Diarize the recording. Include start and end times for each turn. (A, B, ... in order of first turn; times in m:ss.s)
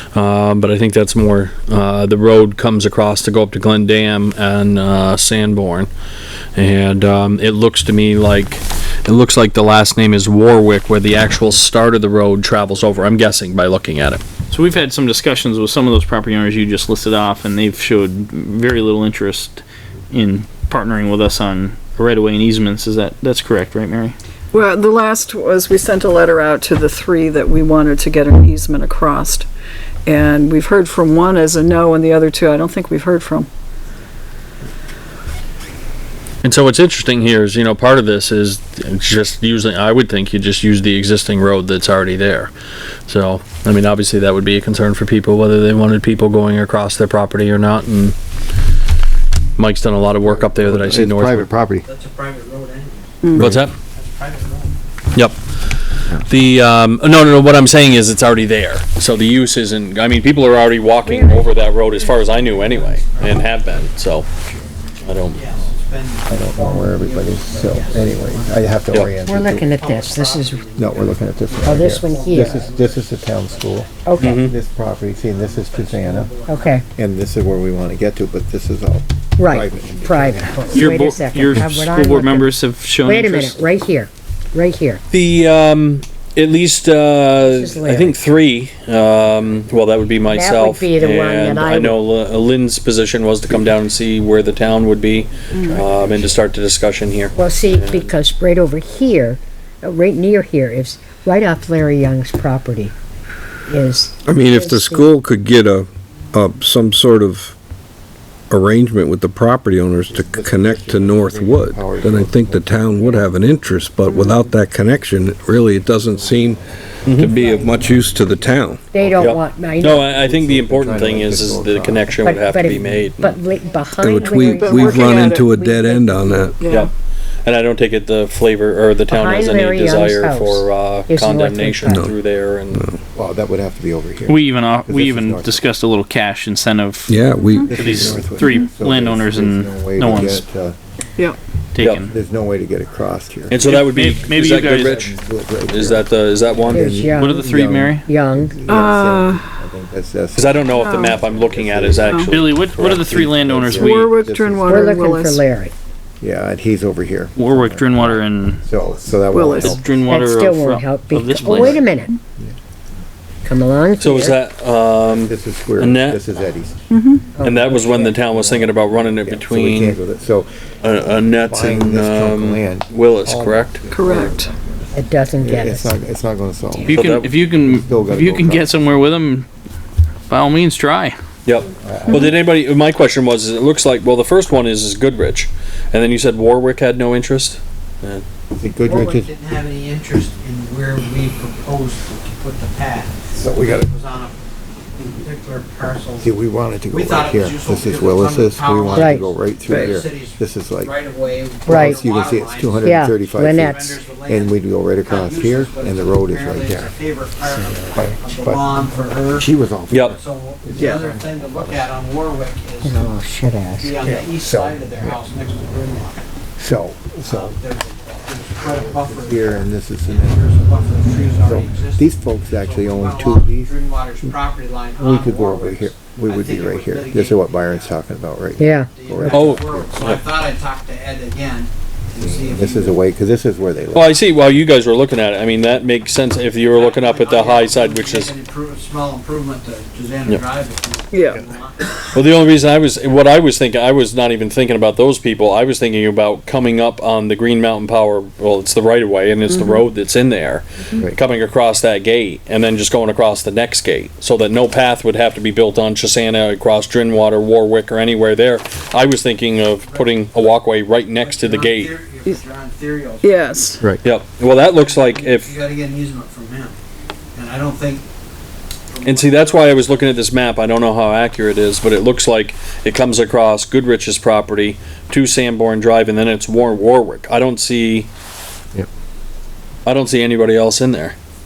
0:00.1-0:05.9 A
0:06.6-0:14.2 A
0:14.5-0:24.2 B
0:24.5-0:29.5 C
0:30.0-0:33.5 C
0:36.4-0:42.5 A
0:43.1-0:48.2 A
0:49.6-0:51.5 A
0:50.2-0:51.8 D
0:51.8-0:53.1 E
0:53.2-0:53.5 C
0:53.3-0:53.7 A
0:53.9-0:54.8 E
0:56.2-1:04.3 A
1:01.0-1:02.5 F
1:02.1-1:03.9 E
1:05.0-1:05.4 A
1:05.3-1:08.9 E
1:06.3-1:09.7 D
1:09.2-1:10.6 F
1:09.7-1:14.0 E
1:10.8-1:16.3 D
1:11.6-1:12.7 F
1:14.0-1:14.5 F
1:14.2-1:14.6 A
1:15.1-1:16.8 E
1:16.5-1:16.8 F
1:17.0-1:20.8 D
1:19.4-1:22.5 F
1:20.7-1:23.7 B
1:23.0-1:25.0 F
1:25.1-1:38.1 A
1:27.4-1:28.2 F
1:30.3-1:32.0 F
1:35.5-1:36.4 D
1:35.6-1:35.8 C
1:37.4-1:43.0 F
1:43.7-1:45.1 F
1:44.2-1:47.6 G
1:48.5-1:56.6 G
1:50.1-1:53.3 D
1:54.2-2:02.2 D
1:57.0-1:57.3 A
1:57.2-1:57.9 F
1:57.2-1:58.8 G
1:58.9-2:00.0 F
1:59.2-2:03.4 A
2:02.2-2:06.6 F
2:04.0-2:06.6 G
2:04.5-2:05.5 C
2:06.6-2:06.9 C
2:07.4-2:12.8 A
2:09.1-2:12.1 F
2:11.9-2:12.1 G
2:12.7-2:13.0 G
2:13.1-2:15.6 D
2:14.3-2:17.2 B
2:17.1-2:18.2 G
2:17.6-2:20.8 D
2:17.7-2:20.4 B
2:21.7-2:22.1 B
2:21.8-2:22.1 A
2:22.1-2:23.6 D
2:23.5-2:25.2 A
2:23.6-2:25.1 B
2:24.4-2:26.1 D
2:25.7-2:27.0 A
2:26.7-2:35.0 D
2:26.7-2:27.5 F
2:27.1-2:28.1 B
2:28.0-2:28.7 F
2:28.7-2:29.4 C
2:30.3-2:32.6 A
2:30.7-2:31.2 C
2:32.0-2:32.3 C
2:32.3-2:34.2 B
2:33.8-2:35.4 C
2:34.6-2:35.7 F
2:36.2-2:39.9 D
2:37.4-2:38.6 B
2:39.3-2:39.8 C
2:39.4-2:41.9 B
2:40.1-2:42.1 F
2:43.4-2:44.4 F
2:44.0-2:46.2 A
2:45.0-2:46.8 D
2:46.9-2:47.3 C
2:47.3-2:48.2 F
2:47.4-2:50.0 A
2:47.6-2:58.8 D
2:50.8-2:53.8 A
2:53.9-2:54.5 C
2:54.9-2:56.0 F
2:56.9-2:59.5 B
2:56.9-2:57.2 A
3:00.3-3:01.2 B
3:01.4-3:08.2 A
3:01.8-3:02.3 D
3:08.6-3:09.3 D
3:08.9-3:09.2 F
3:09.2-3:14.4 E
3:13.3-3:13.9 D
3:14.9-3:16.3 E
3:16.2-3:20.9 D
3:16.9-3:22.9 E
3:18.9-3:19.3 F
3:21.7-3:26.9 D
3:21.7-3:22.0 F
3:22.8-3:24.1 F
3:23.7-3:29.5 E
3:27.4-3:28.2 F
3:27.9-3:28.8 D
3:29.3-3:31.9 D
3:29.9-3:30.2 A
3:30.2-3:33.1 E
3:32.8-3:34.0 F
3:33.8-3:36.2 E
3:34.0-3:35.2 D
3:36.6-3:37.6 D
3:37.2-3:48.0 E
3:38.6-3:40.7 D
3:41.4-3:44.3 D
3:45.0-3:50.2 D
3:48.6-3:48.9 F
3:49.0-3:53.0 E
3:49.3-3:50.2 A
3:52.2-3:54.2 D
3:53.9-3:58.3 A
3:56.7-4:01.8 E
4:01.1-4:01.4 C
4:02.1-4:21.9 A
4:19.8-4:20.1 E
4:21.2-4:23.6 E
4:23.2-4:23.8 C
4:24.0-4:25.6 A
4:24.6-4:26.8 E
4:27.3-4:28.1 E
4:28.9-4:30.0 E
4:29.0-4:38.1 A
4:39.8-4:41.2 A